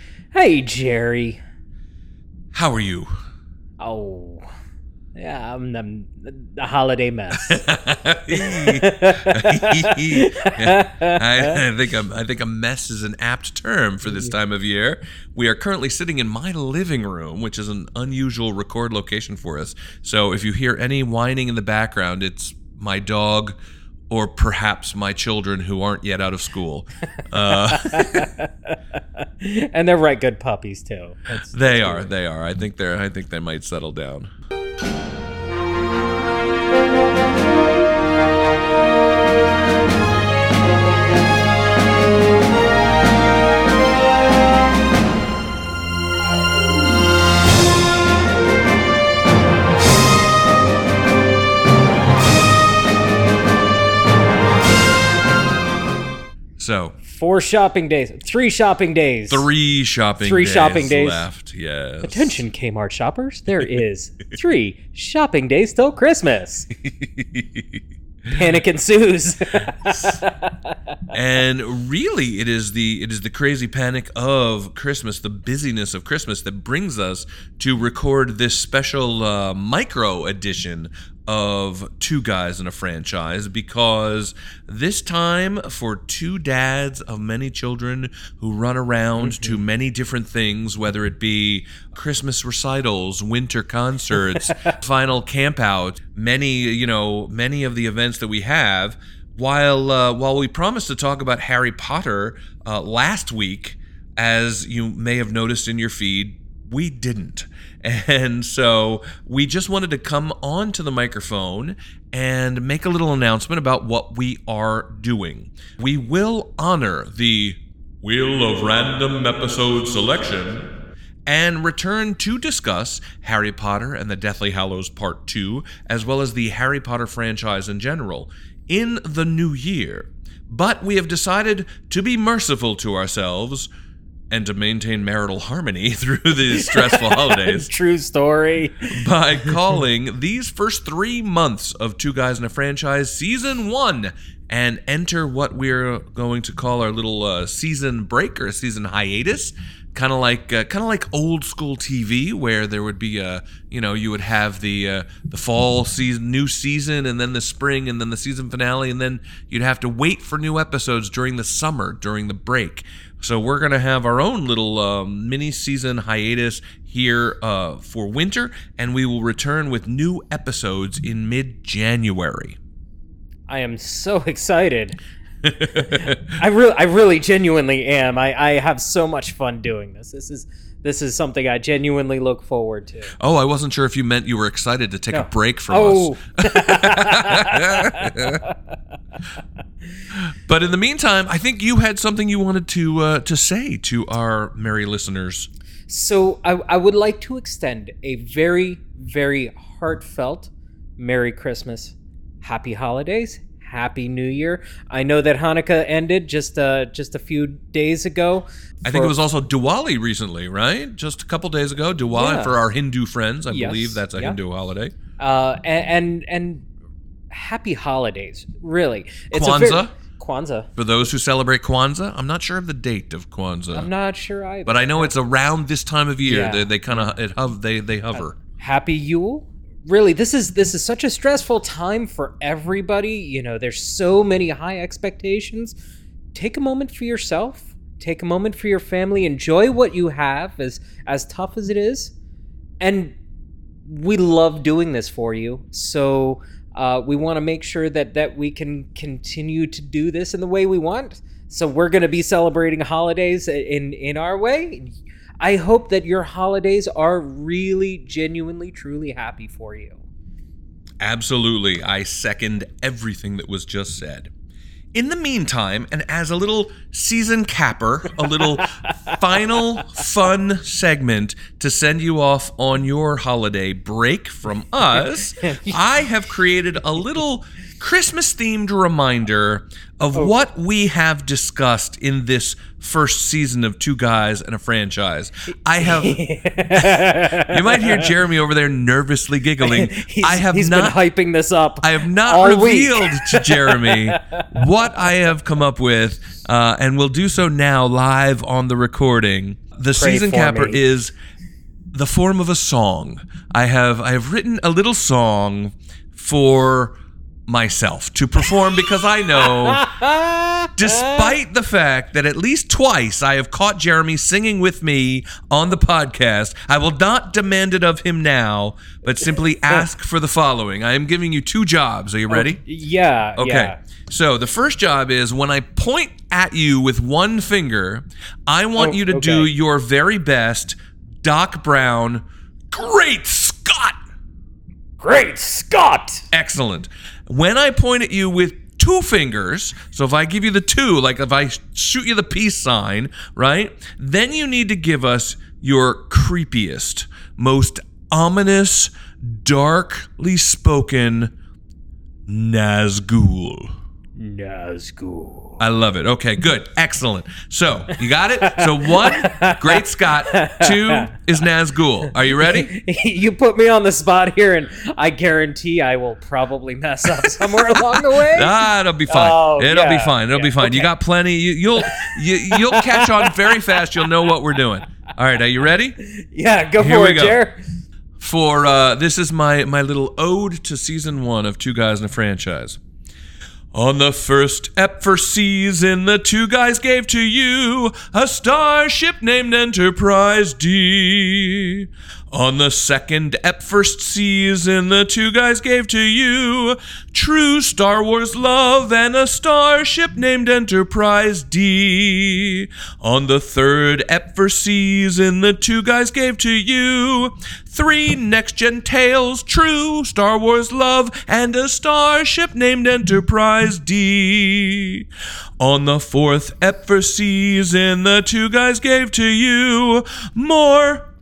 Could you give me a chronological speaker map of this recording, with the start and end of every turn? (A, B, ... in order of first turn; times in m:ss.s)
0:00.3-0:01.4 A
0:02.5-0:03.1 B
0:03.8-0:04.4 A
0:05.2-0:07.7 A
0:07.4-0:23.6 B
0:08.3-0:11.6 A
0:14.1-0:14.3 A
0:24.1-0:28.3 B
0:27.4-0:32.1 A
0:31.5-0:34.3 B
0:56.6-0:57.0 B
0:57.0-0:59.5 A
0:59.3-1:02.4 B
1:00.2-1:01.3 A
1:02.0-1:06.7 A
1:06.8-1:08.3 B
1:08.3-1:11.0 A
1:09.9-1:10.2 B
1:11.1-2:00.7 B
1:29.2-1:29.6 A
1:34.4-1:34.7 A
2:01.3-2:13.7 B
2:14.3-2:17.7 B
2:16.5-2:19.6 A
2:19.0-2:52.6 B
2:53.5-2:55.0 A
2:55.4-2:56.4 B
2:55.8-3:03.2 A
3:03.2-3:08.4 B
3:05.1-3:08.8 A
3:10.2-3:15.5 B
3:15.9-3:29.2 A
3:28.8-3:35.0 B
3:32.1-3:32.6 A
3:33.5-3:34.4 A
3:35.2-3:36.7 A
3:37.3-3:40.7 A
3:39.3-3:40.0 B
3:40.8-3:43.9 B
3:43.7-3:45.1 A
3:44.7-3:48.4 B
3:46.2-3:47.2 A
3:48.4-3:55.8 A
3:56.3-4:02.1 A
4:02.8-4:03.2 A
4:03.9-4:20.0 A
4:21.0-4:24.3 B
4:24.9-4:46.2 B
4:28.4-4:30.0 A
4:34.9-4:35.8 A
4:45.8-4:48.1 A
4:46.7-4:51.0 B
4:49.6-4:54.5 A
4:51.8-5:01.1 B
5:00.0-5:00.8 A
5:01.9-5:07.0 B
5:07.5-5:09.9 B
5:09.3-5:11.3 A
5:10.8-5:22.6 B
5:22.3-5:23.8 A
5:23.4-5:34.0 B
5:28.8-5:29.5 A
5:35.0-5:36.2 A
5:36.3-5:51.3 B
5:52.3-5:53.7 B
5:54.2-5:55.6 A
5:55.6-6:02.7 B
5:58.4-6:01.2 A
6:02.2-6:10.9 A
6:07.2-6:16.0 B
6:11.8-6:14.6 A
6:16.0-6:17.6 A
6:16.8-6:17.4 B
6:18.2-6:22.8 B
6:23.7-6:55.1 B
6:55.6-7:01.1 B